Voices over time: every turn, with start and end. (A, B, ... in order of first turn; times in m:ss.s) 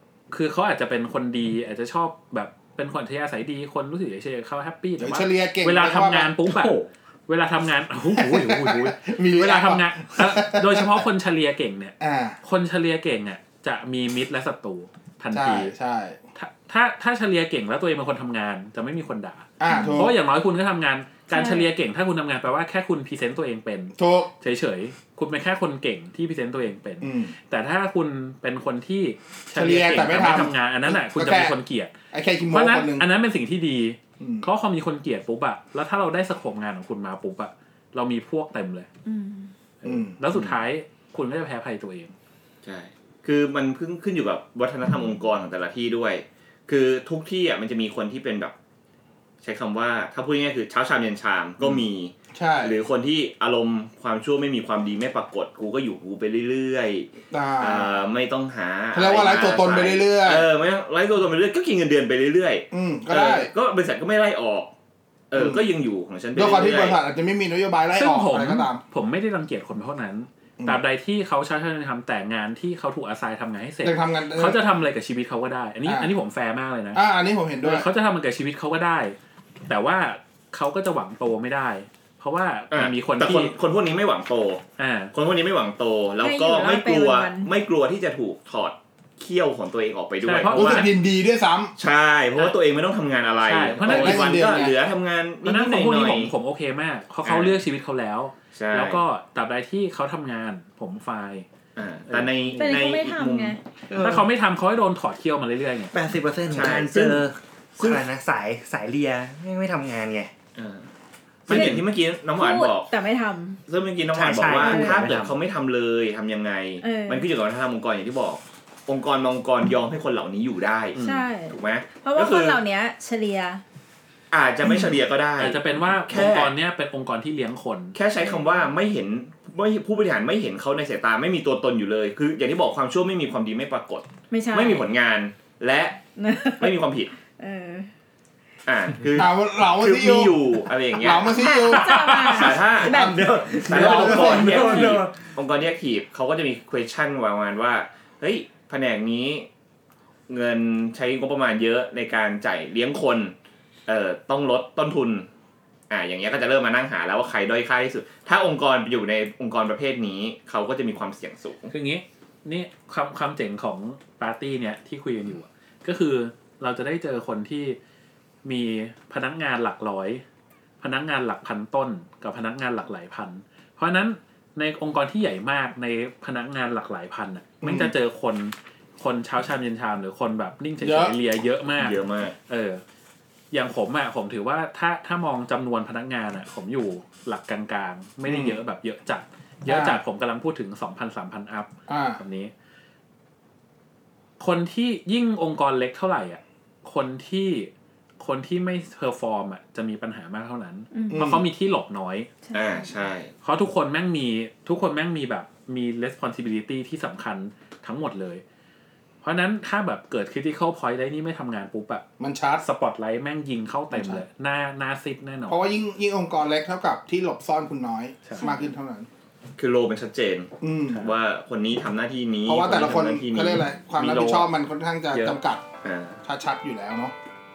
0:00.3-0:15.7 A
0:05.0-0:06.4 B
0:06.5-0:06.9 C
0:08.2-0:11.0 B
0:12.0-0:12.4 B
0:15.3-0:16.2 B
0:16.4-0:31.9 A
0:19.6-0:20.1 B
0:19.7-0:20.1 D
0:21.3-0:21.7 D
0:24.0-0:24.3 B
0:27.0-0:27.3 B
0:29.6-0:31.6 B
0:32.1-0:33.1 B
0:32.5-0:38.9 A
0:34.2-0:34.5 B
0:39.0-0:39.5 D
0:39.8-0:42.1 A
0:39.8-0:40.2 B
0:40.3-0:40.6 E
0:42.6-0:48.5 E
0:49.4-0:57.1 E
0:52.3-0:52.8 B
0:57.3-0:58.0 B
0:57.6-1:04.7 E
0:58.9-1:00.5 B
1:02.7-1:03.5 B
1:05.3-1:07.0 E
1:05.4-1:05.6 B
1:06.4-1:08.8 B
1:08.0-1:17.0 A
1:13.8-1:14.6 B
1:15.9-1:16.1 B
1:16.9-1:17.9 B
1:17.6-1:19.2 A
1:19.7-1:23.5 A
1:22.7-1:24.6 E
1:24.8-1:25.1 A
1:25.1-1:31.0 E
1:26.2-1:27.5 D
1:30.2-1:30.9 A
1:30.5-1:31.7 B
1:31.8-1:36.3 E
1:33.5-1:34.5 A
1:33.8-1:34.7 B
1:35.4-1:41.5 A
1:37.2-1:37.6 E
1:38.6-1:39.0 E
1:41.8-1:43.6 E
1:42.1-1:42.8 C
1:42.6-1:43.6 D
1:43.9-1:44.3 C
1:44.0-1:45.9 A
1:45.9-1:50.3 C
1:46.5-1:47.2 E
1:47.8-1:48.0 E
1:50.6-1:50.9 E
1:51.5-1:52.9 E
1:51.5-1:53.6 D
1:53.7-2:02.6 E
1:54.1-1:55.4 C
1:54.5-1:55.1 D
1:56.8-1:57.3 D
2:01.0-2:01.3 A
2:01.0-2:03.6 D
2:04.3-2:06.5 E
2:05.4-2:08.0 A
2:08.0-2:16.0 E
2:14.3-2:14.9 D
2:16.2-2:17.9 D
2:16.6-2:17.2 E
2:18.7-2:21.4 E
2:19.2-2:22.0 B
2:21.2-2:23.3 D
2:21.7-2:22.6 A
2:22.2-2:29.5 E
2:22.8-2:25.2 C
2:23.7-2:24.6 B
2:24.3-2:25.0 D
2:30.3-2:33.3 E
2:33.9-2:35.3 E
2:35.9-2:41.7 E
2:41.7-2:47.8 A
2:48.4-2:50.2 A
2:50.8-3:02.8 A
2:57.6-2:57.9 B
3:00.8-3:01.2 B
3:01.8-3:02.4 E
3:03.5-3:12.5 A
3:08.2-3:08.6 B
3:09.7-3:10.0 B
3:11.9-3:12.2 B
3:14.4-3:22.3 A
3:20.9-3:21.2 D
3:21.1-3:21.4 B
3:22.4-3:22.9 D
3:22.5-3:23.3 E
3:23.4-3:28.4 A
3:29.2-3:32.0 A
3:32.2-3:32.6 B
3:32.6-3:35.7 A
3:33.9-3:34.2 B
3:35.5-3:39.1 B
3:39.6-3:44.5 E
3:40.6-3:41.1 B
3:42.5-3:45.6 B
3:45.1-3:45.4 A
3:45.8-3:46.2 E
3:46.2-3:47.2 B